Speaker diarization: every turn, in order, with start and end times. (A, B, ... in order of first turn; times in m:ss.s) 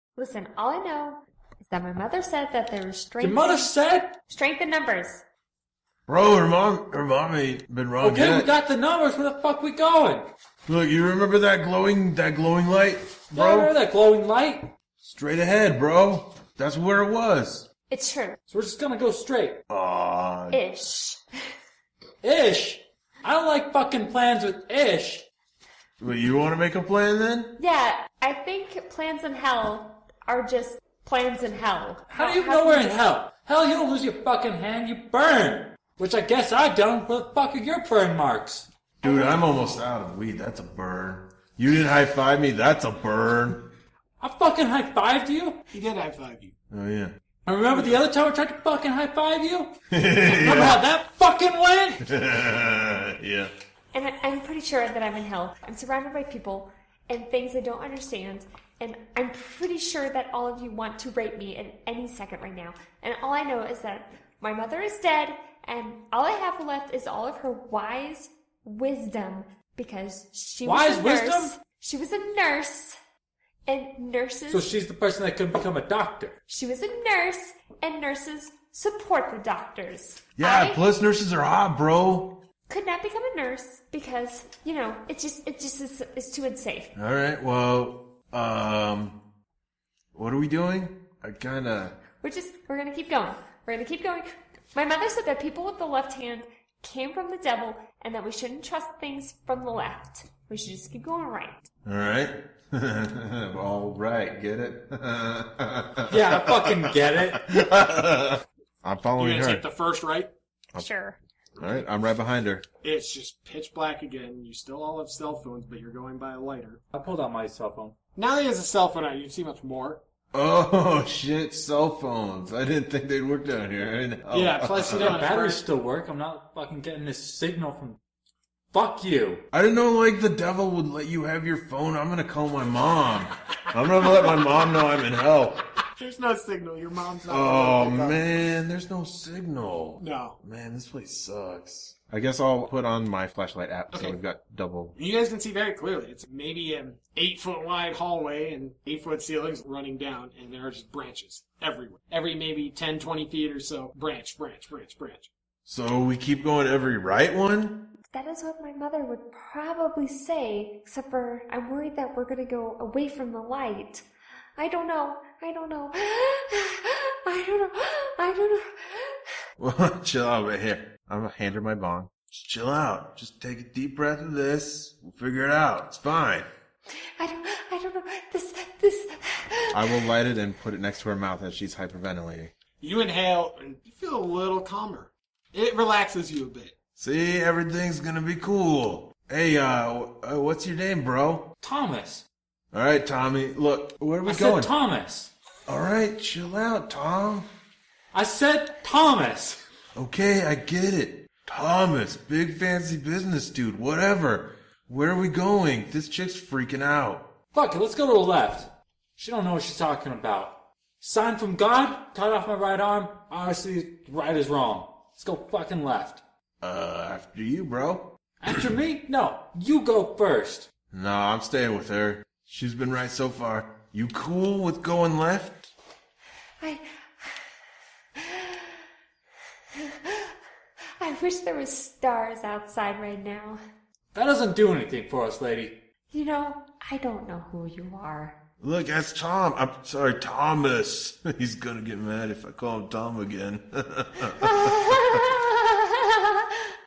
0:00.2-0:03.7 A
0:03.2-0:04.2 B
0:04.3-0:05.2 A
0:06.1-0:08.5 C
0:08.0-0:10.3 B
0:10.7-0:13.7 C
0:13.3-0:14.7 B
0:15.0-0:17.7 C
0:17.9-0:18.4 A
0:18.5-0:19.6 B
0:19.7-0:20.6 C
0:20.5-0:21.2 A
0:22.2-0:25.3 B
0:26.0-0:27.6 C
0:27.6-0:32.9 A
0:32.1-0:38.7 B
0:39.0-0:43.7 C
0:39.0-0:39.4 A
0:44.2-0:45.6 B
0:45.7-0:46.6 D
0:46.7-0:47.2 C
0:47.5-0:52.1 B
0:47.7-0:48.0 D
0:49.9-0:50.8 C
0:52.0-0:53.5 C
0:53.9-1:13.0 A
1:10.6-1:11.6 B
1:13.7-1:14.7 A
1:14.5-1:16.4 B
1:16.5-1:20.8 A
1:20.4-1:22.4 C
1:22.7-1:26.9 A
1:27.0-1:29.2 C
1:30.1-1:32.0 C
1:32.1-1:41.7 A
1:41.8-1:49.7 C
1:46.1-1:47.4 B
1:49.2-1:50.3 D
1:50.8-1:51.2 A
1:51.6-1:52.7 C
1:52.8-1:56.8 D
1:56.9-1:58.0 B
1:58.2-2:00.0 D
2:00.3-2:05.3 C
2:04.3-2:05.6 D
2:04.9-2:08.0 B
2:08.7-2:09.4 B
2:09.5-2:15.6 C
2:16.0-2:18.2 D
2:17.3-2:25.0 C
2:20.0-2:20.4 D
2:23.9-2:24.2 D
2:25.0-2:35.3 D
2:35.7-2:37.8 C
2:38.1-2:44.0 A
2:44.6-2:49.2 A
2:49.6-2:56.5 C
2:57.2-3:00.0 A
2:59.7-3:02.5 C
3:02.8-3:06.8 D
3:07.0-3:11.5 C
3:11.6-3:12.2 B
3:12.7-3:14.7 C
3:14.2-3:15.3 B
3:15.7-3:17.5 C
3:18.1-3:19.6 B
3:20.0-3:27.3 C
3:27.5-3:36.2 B
3:36.6-3:38.6 C
3:38.4-3:40.7 B
3:40.9-3:45.7 C
3:46.6-3:47.4 A
3:48.2-3:48.8 A
3:49.8-3:50.3 A
3:51.0-3:53.6 A
3:54.1-3:55.8 B
3:56.1-3:58.4 A
3:58.6-4:04.8 C
4:04.3-4:06.7 A